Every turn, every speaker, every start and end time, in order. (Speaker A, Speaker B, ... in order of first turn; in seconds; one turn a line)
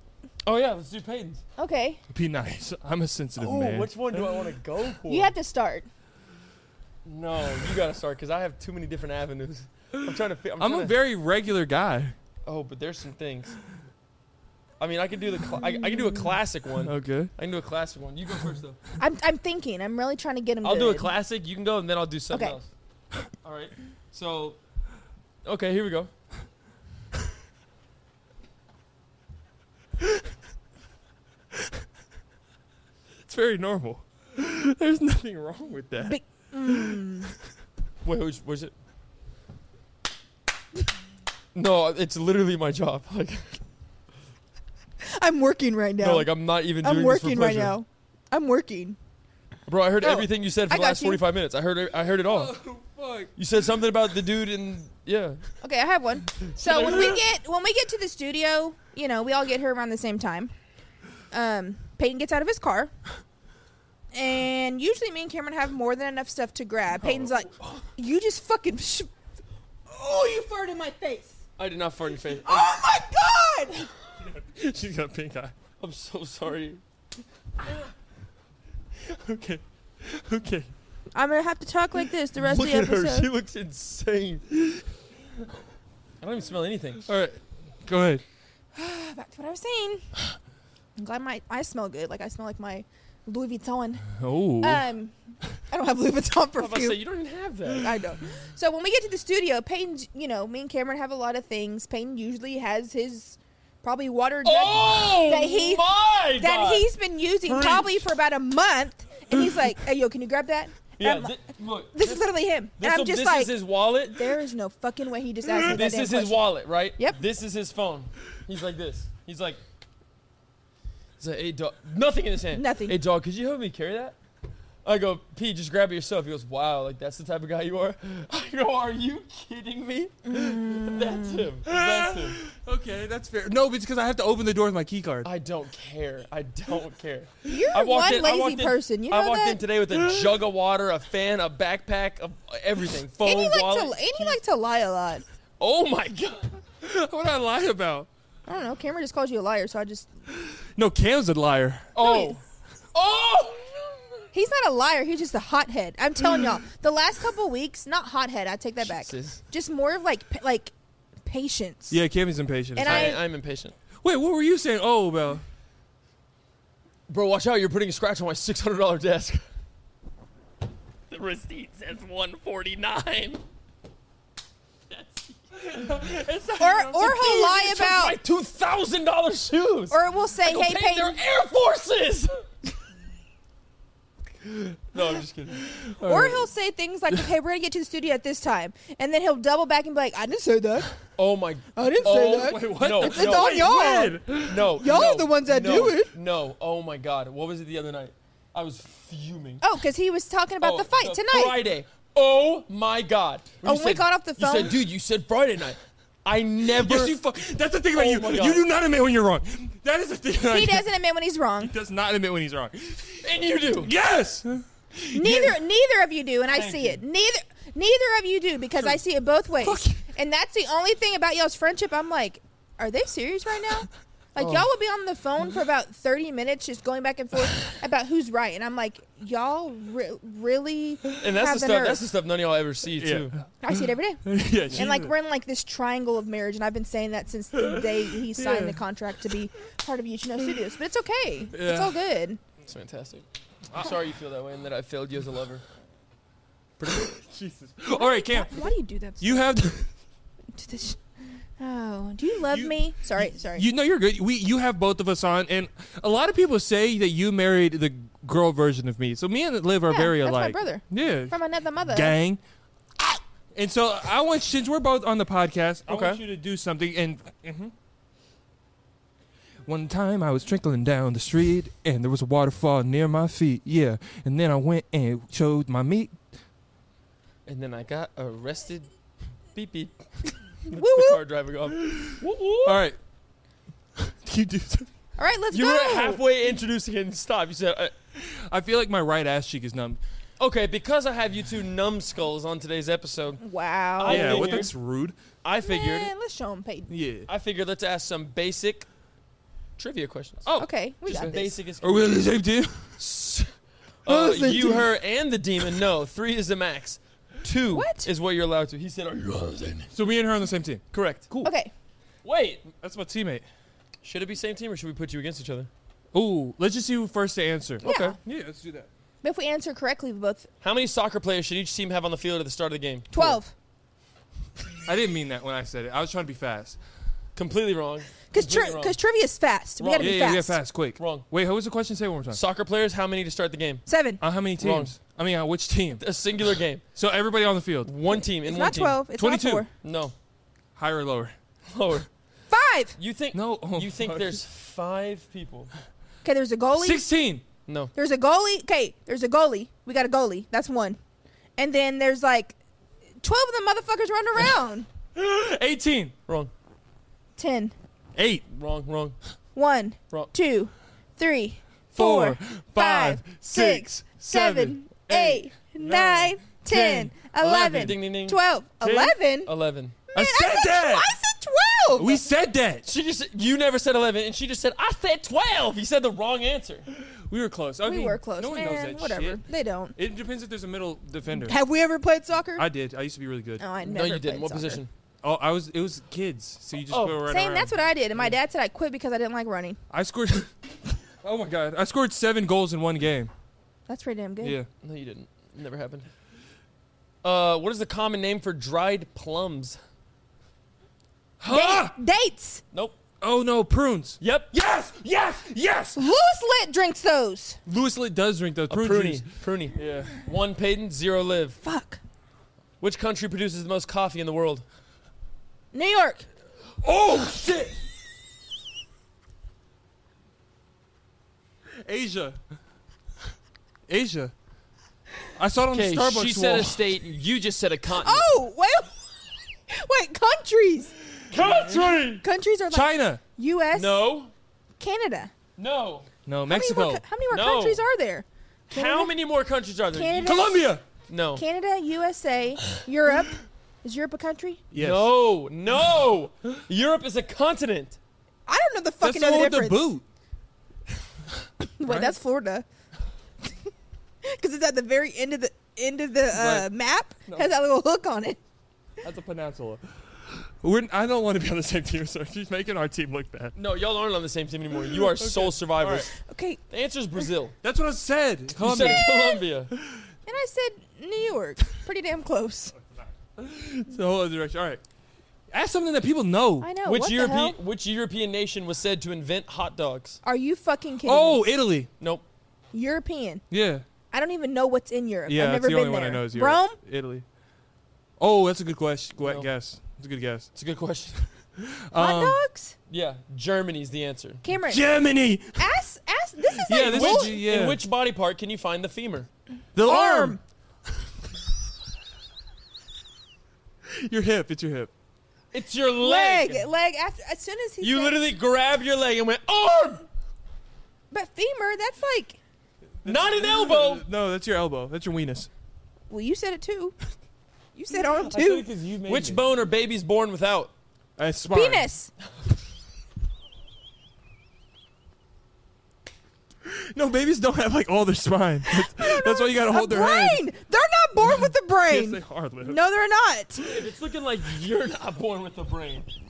Speaker A: 0.4-1.4
Speaker B: 1.6-2.0
Speaker C: 2.1-4.4
Speaker A: 3.4-5.3
Speaker B: 5.1-5.9
Speaker A: 7.0-10.9
Speaker C: 10.6-12.2
Speaker A: 12.4-13.6
Speaker A: 14.8-18.8
Speaker B: 15.9-16.2
Speaker C: 16.8-17.3
Speaker B: 19.0-21.1
Speaker A: 20.6-22.7
Speaker B: 22.3-22.6
Speaker A: 23.4-24.6
Speaker A: 25.4-26.1
Speaker C: 31.5-31.8
Speaker C: 33.2-37.0
Speaker B: 36.0-37.3
Speaker A: 38.0-38.7
Speaker A: 41.5-43.6
Speaker B: 45.0-49.0
Speaker A: 46.0-47.8
Speaker A: 49.7-52.5
Speaker B: 50.0-51.2
Speaker C: 52.2-53.3
Speaker A: 53.4-55.4
Speaker B: 55.6-60.5
Speaker A: 56.4-57.2
Speaker B: 61.3-62.9
Speaker B: 64.1-69.1
Speaker A: 67.0-67.8
Speaker B: 69.9-71.3
Speaker A: 71.6-72.8
Speaker B: 72.4-73.8
Speaker C: 74.3-75.5
Speaker A: 75.8-76.8
Speaker C: 79.0-80.7
Speaker B: 81.1-83.3
Speaker A: 82.4-84.5
Speaker A: 86.2-87.0
Speaker C: 87.0-88.2
Speaker B: 88.7-90.1
Speaker B: 91.0-95.1
Speaker C: 94.2-94.8
Speaker B: 95.7-97.0
Speaker A: 96.6-97.9
Speaker B: 97.7-111.3
Speaker A: 104.4-106.9
Speaker A: 107.4-108.0
Speaker A: 111.0-112.2
Speaker B: 111.9-113.5
Speaker A: 112.8-114.4
Speaker B: 114.1-117.2
Speaker A: 115.6-119.6
Speaker A: 121.2-124.2
Speaker B: 122.5-123.0
Speaker A: 124.8-132.4
Speaker B: 130.3-131.4
Speaker C: 131.7-135.3
Speaker A: 135.2-144.4
Speaker B: 137.4-139.6
Speaker C: 139.9-140.4
Speaker B: 143.2-145.2
Speaker A: 145.6-146.6
Speaker C: 146.8-148.1
Speaker B: 148.5-150.1
Speaker C: 150.4-151.9
Speaker A: 151.9-152.4
Speaker B: 152.0-152.4
Speaker A: 152.9-154.0
Speaker B: 154.3-160.7
Speaker A: 158.8-159.4
Speaker B: 161.2-162.0
Speaker C: 161.9-163.2
Speaker B: 162.8-163.2
Speaker A: 162.8-163.7
Speaker C: 164.0-165.4
Speaker A: 167.1-169.4
Speaker A: 171.1-173.4
Speaker A: 174.9-182.4
Speaker C: 175.7-176.9
Speaker B: 176.6-178.2
Speaker B: 179.9-181.2
Speaker A: 184.9-185.7
Speaker C: 185.7-186.5
Speaker B: 186.0-190.9
Speaker A: 191.2-193.6
Speaker B: 191.7-194.2
Speaker C: 192.0-194.8
Speaker A: 194.4-199.6
Speaker B: 194.7-196.1
Speaker B: 199.6-201.6
Speaker A: 200.6-207.2
Speaker B: 203.6-204.8
Speaker C: 206.8-210.9
Speaker A: 207.9-208.6
Speaker B: 210.5-211.7
Speaker C: 211.6-213.2
Speaker A: 213.2-213.9
Speaker C: 213.8-215.6
Speaker B: 215.1-232.0
Speaker A: 216.5-217.0
Speaker C: 219.6-220.0
Speaker A: 224.4-224.7
Speaker A: 231.2-233.4
Speaker C: 233.0-235.1
Speaker B: 233.6-242.4
Speaker C: 237.6-238.8
Speaker C: 241.5-242.0
Speaker A: 242.7-245.6
Speaker A: 246.8-247.1
Speaker C: 246.9-249.9
Speaker B: 247.9-249.5
Speaker B: 250.5-253.7
Speaker C: 252.5-262.4
Speaker B: 259.9-262.1
Speaker C: 263.0-267.7
Speaker A: 265.9-266.2
Speaker C: 269.6-276.1
Speaker A: 277.5-278.9
Speaker A: 279.5-280.0
Speaker A: 280.6-282.8
Speaker B: 280.7-281.2
Speaker C: 281.8-283.0
Speaker C: 284.0-284.9
Speaker B: 285.2-286.2
Speaker A: 285.5-287.9
Speaker C: 288.1-290.0
Speaker A: 290.4-293.4
Speaker B: 293.4-294.7
Speaker A: 294.0-294.7
Speaker C: 294.0-295.1
Speaker A: 295.4-296.1
Speaker B: 295.6-296.9
Speaker C: 296.9-297.3
Speaker A: 297.3-298.9
Speaker A: 299.8-300.5
Speaker C: 300.4-303.0
Speaker B: 300.6-301.5
Speaker A: 301.1-302.2
Speaker A: 303.0-303.5
Speaker A: 304.0-309.9
Speaker C: 304.1-304.8
Speaker B: 304.1-304.8
Speaker B: 307.7-308.1
Speaker C: 309.9-311.5
Speaker A: 310.9-311.2
Speaker B: 311.4-311.7
Speaker A: 312.2-312.7
Speaker C: 312.8-313.4
Speaker A: 314.0-315.7
Speaker C: 316.1-318.9
Speaker A: 317.8-318.1
Speaker B: 317.8-318.2
Speaker B: 319.2-320.5
Speaker A: 320.6-323.4
Speaker B: 323.1-323.5
Speaker C: 324.8-326.8
Speaker A: 327.4-329.0
Speaker B: 328.3-330.6
Speaker A: 329.8-330.4
Speaker C: 330.0-332.4
Speaker A: 331.0-331.3
Speaker A: 332.3-333.8
Speaker B: 333.9-334.2
Speaker C: 334.2-336.0
Speaker A: 334.6-334.9
Speaker A: 336.0-336.8
Speaker C: 336.9-337.9
Speaker A: 337.8-339.0
Speaker B: 338.1-339.7
Speaker C: 339.2-339.6
Speaker A: 339.8-340.1
Speaker C: 340.8-341.3
Speaker A: 341.7-342.1
Speaker B: 342.5-342.9
Speaker A: 342.9-345.7
Speaker C: 343.3-344.4
Speaker B: 346.2-347.1
Speaker C: 346.8-347.4
Speaker A: 347.7-347.9
Speaker B: 347.9-351.0
Speaker B: 351.6-352.6
Speaker B: 353.2-354.9
Speaker C: 355.1-356.1
Speaker B: 357.4-357.7
Speaker C: 358.1-358.4
Speaker A: 358.5-359.1
Speaker B: 359.5-369.5
Speaker C: 361.9-367.9
Speaker A: 367.4-368.4
Speaker C: 368.8-369.1
Speaker A: 369.4-370.0
Speaker B: 370.1-372.2
Speaker C: 370.1-371.1
Speaker C: 371.9-372.9
Speaker A: 372.9-376.9
Speaker C: 376.9-379.4
Speaker B: 377.8-379.9
Speaker C: 379.9-381.6
Speaker B: 381.4-382.6
Speaker C: 382.6-383.6
Speaker B: 383.6-384.8
Speaker A: 383.8-384.9
Speaker C: 385.2-387.7
Speaker A: 386.9-387.2
Speaker B: 387.3-389.8
Speaker C: 389.9-393.3
Speaker B: 393.9-394.6
Speaker C: 394.4-394.7
Speaker A: 394.8-396.1
Speaker A: 397.2-399.8
Speaker C: 401.4-401.9
Speaker B: 401.5-402.6
Speaker A: 402.7-403.0
Speaker C: 403.2-406.1
Speaker A: 404.2-404.5
Speaker B: 405.9-407.6
Speaker C: 407.6-410.1
Speaker A: 408.7-411.6
Speaker B: 411.6-412.0
Speaker A: 412.8-414.6
Speaker B: 415.7-416.3
Speaker C: 416.8-417.8
Speaker C: 421.8-422.4
Speaker C: 423.9-424.3
Speaker C: 425.4-426.8
Speaker A: 425.7-428.3
Speaker B: 427.9-428.9
Speaker B: 429.7-430.9
Speaker A: 431.3-432.2
Speaker C: 431.4-432.1
Speaker B: 432.2-434.0
Speaker C: 432.7-433.2
Speaker A: 433.7-434.3
Speaker B: 434.8-435.3
Speaker A: 435.6-436.1
Speaker C: 436.2-437.0
Speaker B: 436.5-439.1
Speaker A: 437.3-437.8
Speaker A: 438.7-440.4
Speaker B: 439.9-440.7
Speaker C: 440.2-440.8
Speaker A: 441.1-441.4
Speaker B: 441.4-444.6
Speaker C: 444.7-445.1
Speaker A: 444.8-448.0
Speaker B: 448.5-449.9
Speaker C: 449.0-450.0
Speaker B: 451.8-452.6
Speaker C: 451.8-452.1
Speaker B: 454.2-458.4
Speaker C: 456.3-456.7
Speaker C: 459.0-463.5
Speaker A: 463.6-466.1
Speaker C: 464.9-466.1
Speaker B: 466.2-466.6
Speaker A: 466.7-467.6
Speaker C: 467.6-469.0
Speaker A: 468.6-469.7
Speaker B: 468.8-469.4
Speaker C: 469.7-470.1
Speaker B: 470.2-472.7
Speaker C: 472.9-474.8
Speaker C: 475.5-476.7
Speaker B: 476.6-477.6
Speaker A: 476.8-480.2
Speaker B: 480.2-481.4
Speaker C: 481.0-481.9
Speaker A: 482.0-482.2
Speaker B: 482.7-483.4
Speaker C: 483.5-483.8
Speaker B: 484.1-486.8
Speaker C: 485.3-487.2
Speaker C: 488.2-490.5
Speaker A: 489.2-489.5
Speaker A: 490.5-491.1
Speaker C: 491.6-492.4
Speaker B: 491.9-492.8
Speaker A: 492.9-494.4
Speaker B: 494.4-494.8
Speaker C: 494.6-495.7
Speaker B: 495.6-497.4
Speaker C: 496.5-497.8
Speaker A: 496.7-499.3
Speaker C: 499.7-500.4
Speaker B: 499.8-500.4
Speaker C: 503.9-504.9
Speaker A: 505.5-506.6
Speaker B: 506.0-508.2
Speaker A: 507.8-510.0
Speaker B: 511.1-512.4
Speaker C: 513.0-515.5
Speaker A: 513.0-514.0
Speaker B: 516.1-516.9
Speaker B: 517.7-518.7
Speaker C: 517.9-519.5
Speaker A: 519.0-520.7
Speaker C: 521.2-521.9
Speaker B: 521.5-522.1
Speaker C: 526.6-530.4
Speaker B: 528.6-533.6
Speaker C: 531.2-532.8
Speaker A: 533.6-536.1